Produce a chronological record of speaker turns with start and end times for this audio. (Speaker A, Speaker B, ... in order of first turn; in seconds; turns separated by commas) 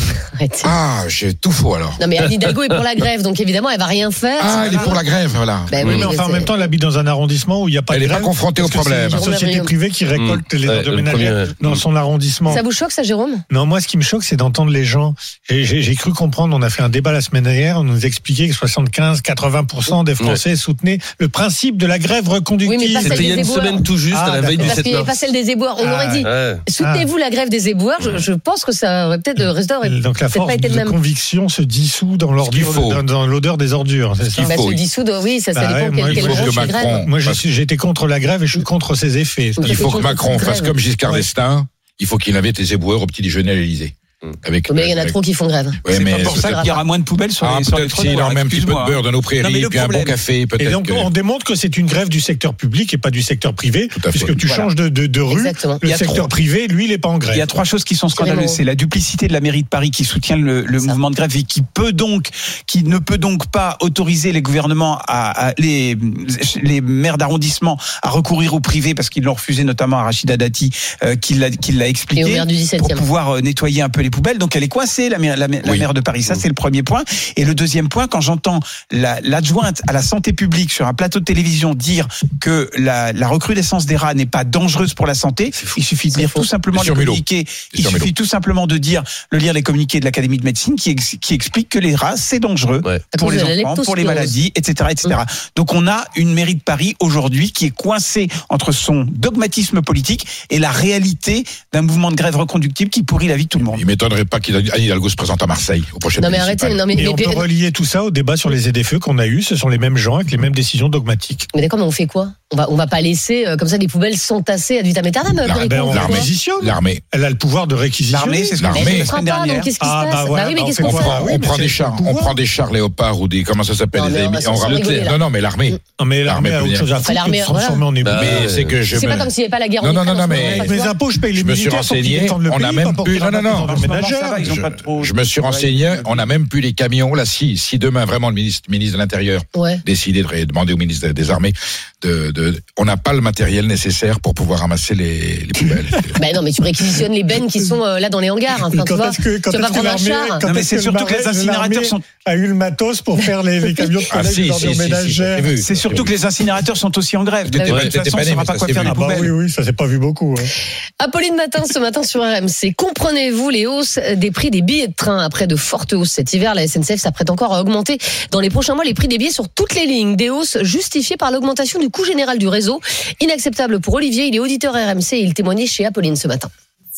Speaker A: 0.2-0.7, Speaker B: 0.6-2.3, Speaker A: 2.0-5.0, Speaker B: 4.4-5.8, Speaker C: 4.6-4.9, Speaker A: 5.7-6.5, Speaker D: 5.8-12.6, Speaker B: 7.9-9.2, Speaker A: 9.1-9.7, Speaker E: 10.1-11.8, Speaker A: 12.5-13.4, Speaker D: 13.5-23.5, Speaker A: 22.6-23.9, Speaker E: 23.0-25.1, Speaker D: 24.1-24.8, Speaker A: 24.6-31.0, Speaker D: 25.8-27.1, Speaker E: 26.2-26.6, Speaker D: 29.8-34.6, Speaker B: 32.4-33.0, Speaker B: 34.3-34.8, Speaker A: 34.4-37.0, Speaker D: 35.5-40.4, Speaker B: 36.0-37.4, Speaker A: 39.6-40.7, Speaker B: 39.6-45.2, Speaker A: 44.7-46.8, Speaker B: 45.8-46.8, Speaker C: 45.9-50.2, Speaker B: 47.4-51.1, Speaker D: 50.6-57.5, Speaker B: 53.9-54.4, Speaker A: 55.3-55.8, Speaker C: 56.0-56.2, Speaker C: 57.3-103.8, Speaker A: 58.2-58.6, Speaker A: 72.2-73.0, Speaker A: 86.1-86.4, Speaker B: 86.7-88.1, Speaker A: 93.1-94.4, Speaker B: 103.7-106.9, Speaker A: 106.2-107.5, Speaker D: 107.0-111.5, Speaker A: 111.5-116.3, Speaker B: 115.5-117.0, Speaker D: 115.6-118.9, Speaker C: 118.1-119.7, Speaker B: 118.6-119.1, Speaker A: 118.7-121.4, Speaker D: 119.8-122.4, Speaker B: 120.8-126.9, Speaker A: 124.0-125.2, Speaker D: 126.0-128.5, Speaker A: 127.0-127.8, Speaker E: 128.0-128.8, Speaker B: 128.1-130.7, Speaker A: 128.9-130.9, Speaker D: 130.4-134.5, Speaker B: 131.3-146.2, Speaker C: 133.1-136.3, Speaker A: 139.5-139.8, Speaker A: 146.2-150.4, Speaker D: 148.7-155.6, Speaker C: 150.4-152.0, Speaker B: 154.1-156.1, Speaker C: 155.6-159.3, Speaker B: 157.5-159.2, Speaker D: 158.8-160.5, Speaker A: 161.0-176.5